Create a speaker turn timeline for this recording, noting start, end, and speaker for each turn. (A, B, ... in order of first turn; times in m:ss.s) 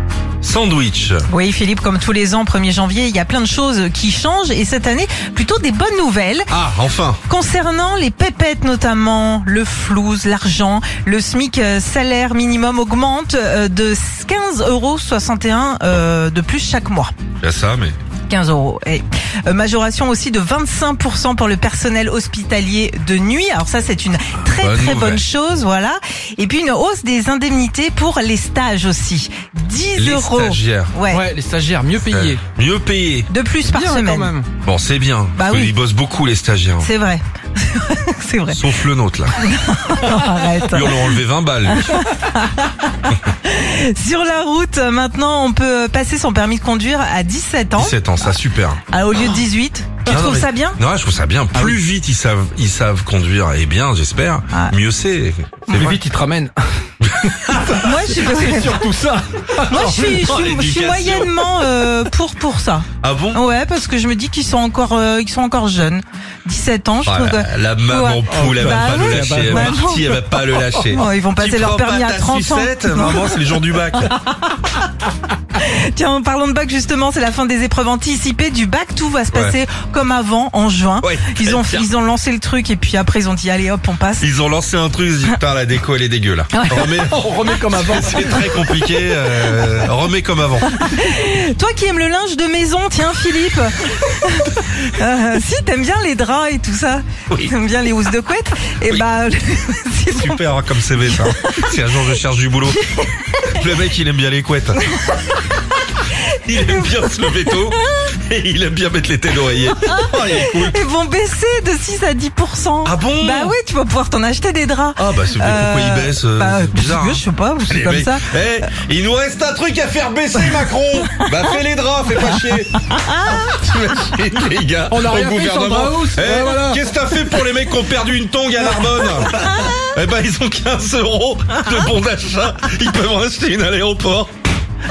0:00.4-0:01.3 A
0:01.3-0:06.5 B
0:06.5-0:07.2 A
0:07.3-0:17.1 B
0:17.4-0:17.9 A
0:18.3-0:31.2 B
0:24.5-0:25.2 A
0:30.0-0:31.0 A
0:31.1-0:32.4 C
0:32.1-0:33.3 A
0:33.3-0:34.3 B
0:33.6-0:34.5 C
0:34.6-0:36.9 A
0:35.3-0:35.7 B
0:36.8-0:38.6 B
0:38.5-0:39.3 A
0:39.4-0:41.1 B
0:40.6-0:41.9 A
0:41.7-0:48.3 B
0:47.8-0:48.8 A
0:48.9-0:50.8 B
0:50.0-0:56.0 A
0:55.7-0:55.9 B
0:55.7-0:56.5 C
0:57.1-0:57.6 A
0:57.2-1:00.3 C
0:57.7-0:58.9 B
0:59.7-1:10.0 B
0:59.7-1:01.5 A
1:03.0-1:03.4 A
1:07.0-1:14.2 A
1:08.3-1:11.0 C
1:10.9-1:13.3 B
1:15.5-1:24.3 B
1:19.3-1:19.6 A
1:21.0-1:21.9 A
1:24.2-1:30.8 A
1:26.5-1:26.9 B
1:26.8-1:28.6 C
1:30.8-1:40.4 B
1:40.1-1:44.8 A
1:41.0-1:41.7 B
1:45.0-1:45.3 B
1:46.0-1:46.8 B
1:46.4-1:50.8 A
1:47.5-1:47.8 B
1:49.8-1:58.3 B
1:52.8-1:53.5 A
1:55.0-2:14.3 A
2:01.0-2:01.5 B
2:02.3-2:03.5 B
2:04.9-2:07.1 C
2:09.5-2:09.8 B